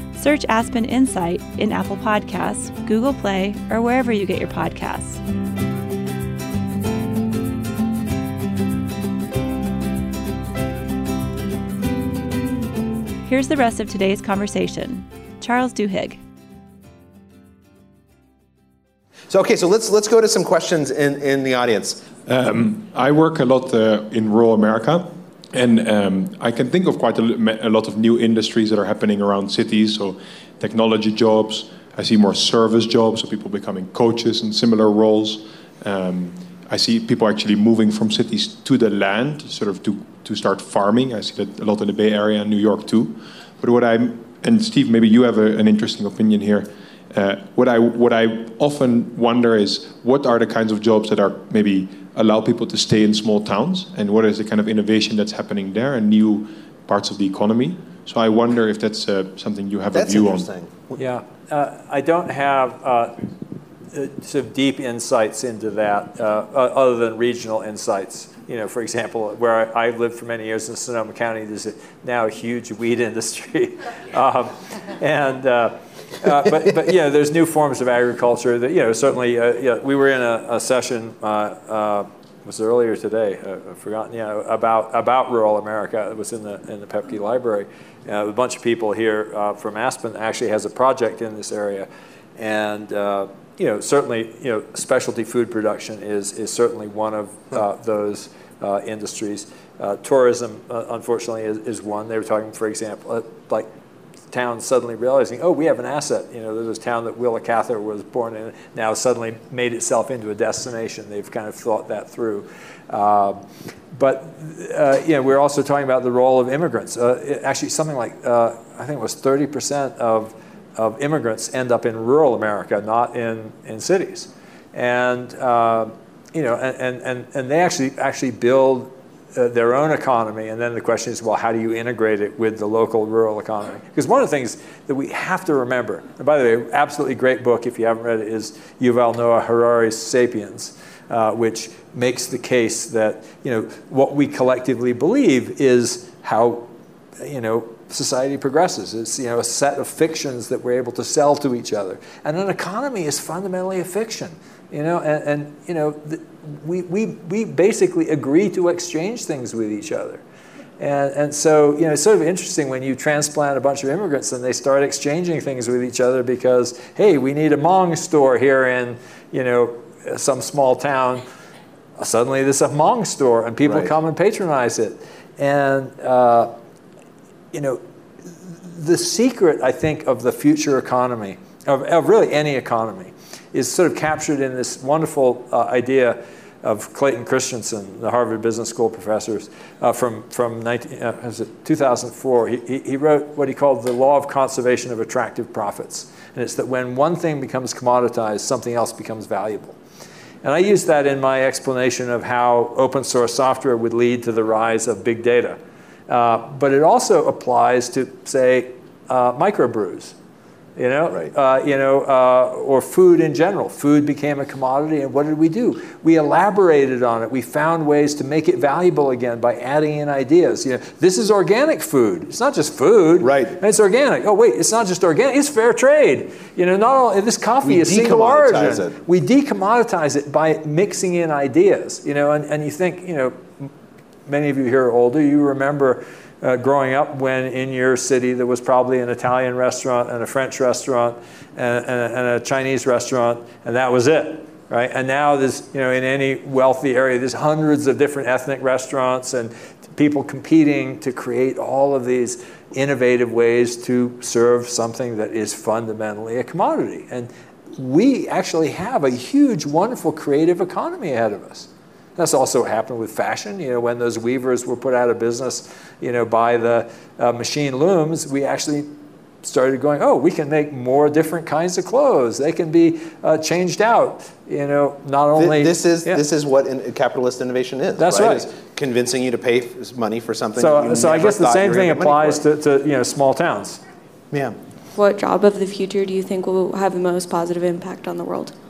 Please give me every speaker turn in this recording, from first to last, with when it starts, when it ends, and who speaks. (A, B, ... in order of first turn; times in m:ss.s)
0:00.1-0:05.2 A
0:13.2-0:16.2 A
0:19.3-0:22.1 B
0:22.2-1:00.5 C
0:59.9-1:01.0 B
1:01.0-1:03.2 D
1:03.9-1:43.7 D
1:44.3-2:26.7 D
2:27.2-2:40.2 D
2:40.8-2:51.2 D
2:52.0-2:56.5 D
2:53.6-2:53.9 B
2:57.5-3:19.8 D
3:20.4-3:30.2 D
3:30.8-3:53.7 D
3:43.2-3:43.6 B
3:47.6-3:49.0 B
3:54.3-4:28.9 D
4:29.4-4:36.2 D
4:35.3-4:42.4 B
4:38.0-4:38.4 D
4:40.6-4:43.8 D
4:44.3-4:44.6 B
4:45.0-4:48.5 E